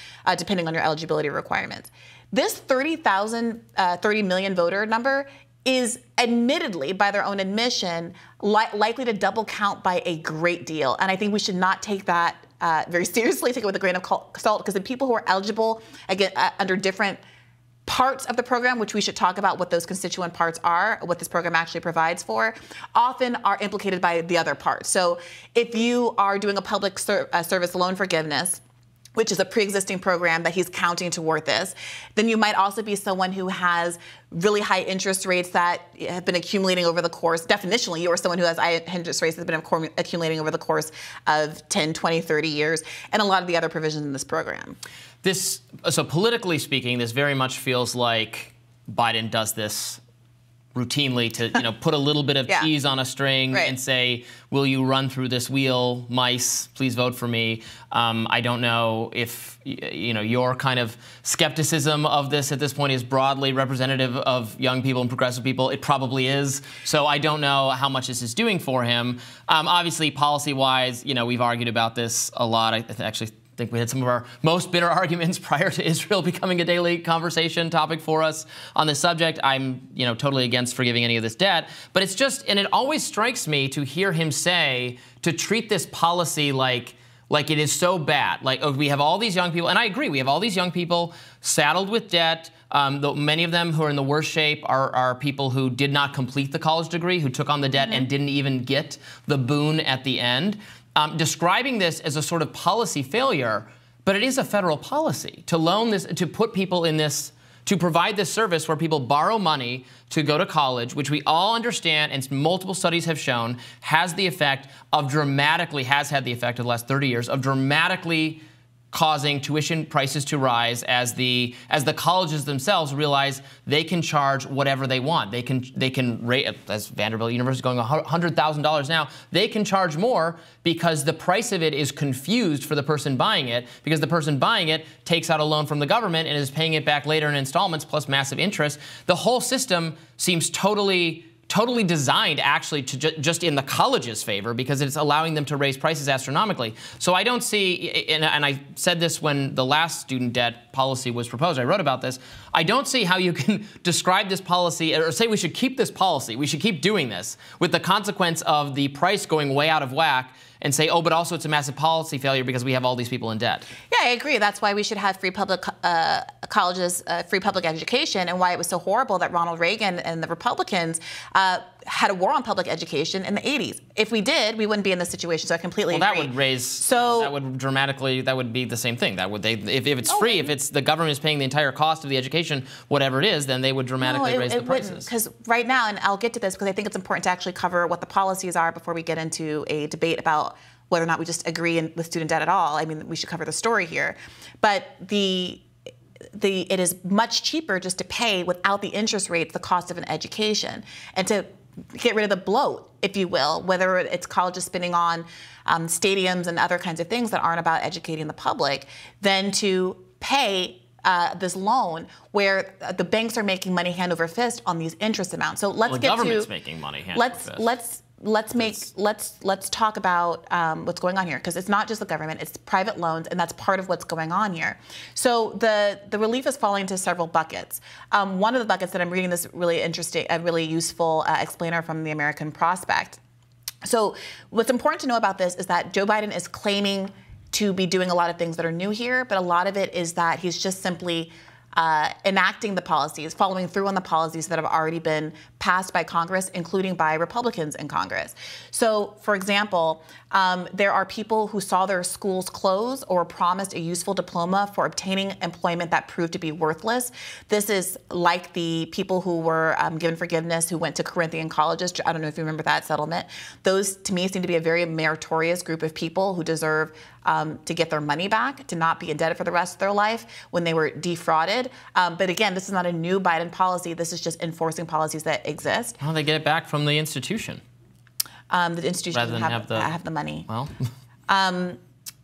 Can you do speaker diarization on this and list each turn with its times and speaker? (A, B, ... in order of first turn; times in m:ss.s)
0:00.2-0:17.2 A
0:17.8-0:28.6 A
0:29.2-0:44.8 A
0:45.2-0:50.0 B
0:50.7-1:58.4 B
0:53.5-0:53.8 A
1:58.9-2:43.7 B
2:43.9-2:57.3 A
2:55.9-3:05.1 B
3:00.0-3:00.5 A
3:04.0-3:15.6 A
3:16.3-3:36.5 A
3:35.9-3:37.8 B
3:37.1-3:53.2 A
3:53.8-4:36.0 A
4:36.0-4:37.6 B
4:38.5-4:40.5 A
4:39.1-4:39.9 B
4:40.5-4:40.7 B
4:41.3-4:41.8 A